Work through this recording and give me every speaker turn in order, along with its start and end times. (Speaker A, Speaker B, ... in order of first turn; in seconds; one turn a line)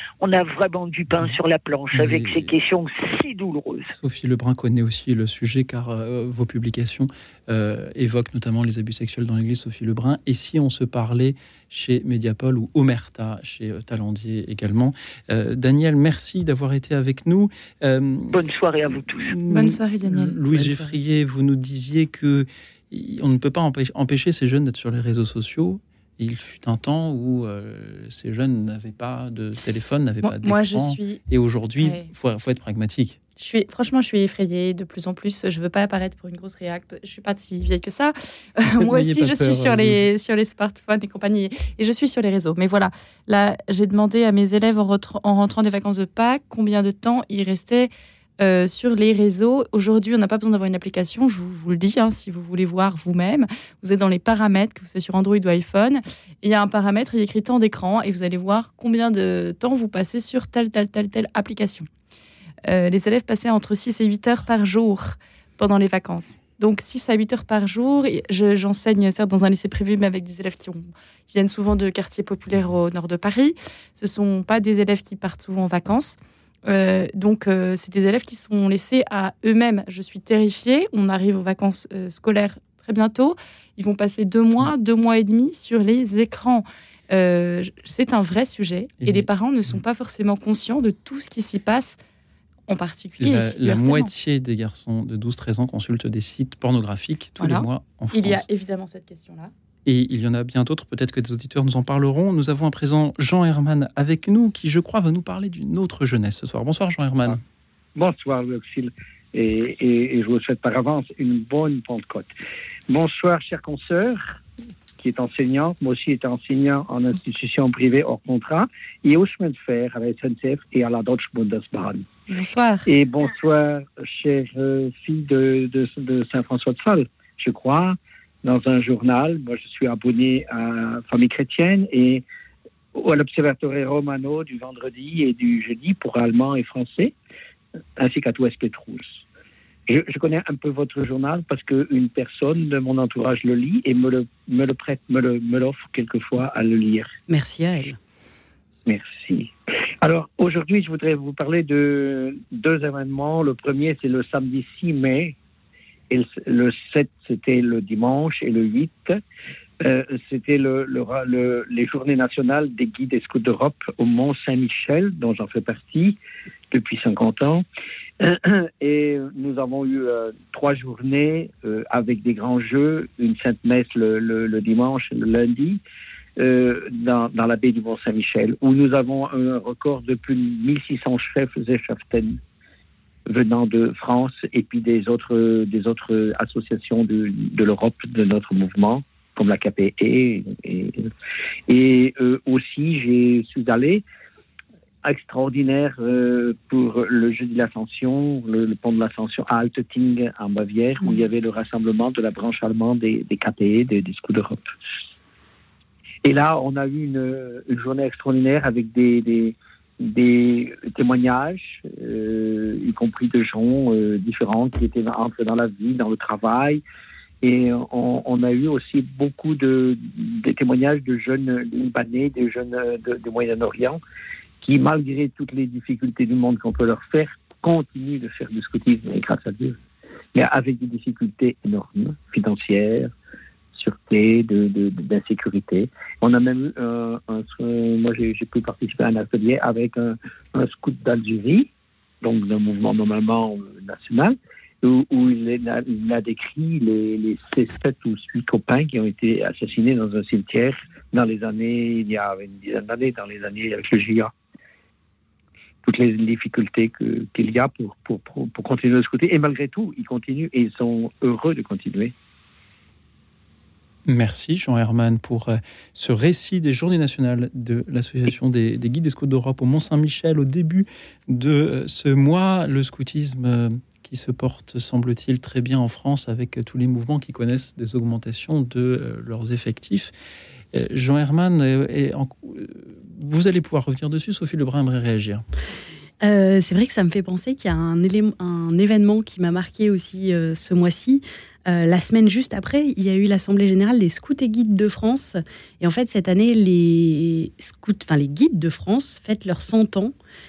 Speaker A: 0.2-3.9
Speaker B: 1.9-2.5
Speaker B: 3.9-18.5
Speaker A: 18.3-19.4
Speaker B: 19.1-33.2
Speaker C: 19.5-21.0
Speaker C: 30.2-31.2
Speaker C: 31.8-32.1
Speaker C: 33.4-61.9
Speaker B: 38.6-40.1
Speaker C: 62.7-92.0
Speaker B: 89.0-89.3
Speaker C: 92.7-94.1
Speaker B: 93.2-98.5
Speaker C: 97.4-99.5
Speaker B: 99.9-107.4
Speaker D: 108.0-112.3
Speaker D: 112.9-114.4
Speaker D: 115.0-122.0
Speaker C: 122.3-122.9
Speaker D: 122.9-132.2
Speaker D: 132.9-137.2
Speaker D: 138.0-139.2
Speaker D: 139.9-147.1
Speaker E: 147.3-148.0
Speaker D: 148.9-149.5
Speaker D: 150.0-155.4
Speaker D: 156.1-159.2
Speaker D: 159.8-166.2
Speaker D: 166.7-167.7
Speaker D: 168.2-175.8
Speaker D: 176.4-182.4
Speaker D: 183.3-191.1
Speaker D: 191.7-194.1
Speaker D: 195.0-204.7
Speaker D: 206.2-216.8
Speaker D: 217.4-224.0
Speaker D: 224.6-229.8
Speaker D: 230.3-233.1
Speaker D: 233.8-241.7
Speaker D: 242.2-254.3
Speaker D: 255.8-262.1
Speaker B: 264.1-280.1
Speaker B: 280.7-285.4
Speaker E: 286.2-300.1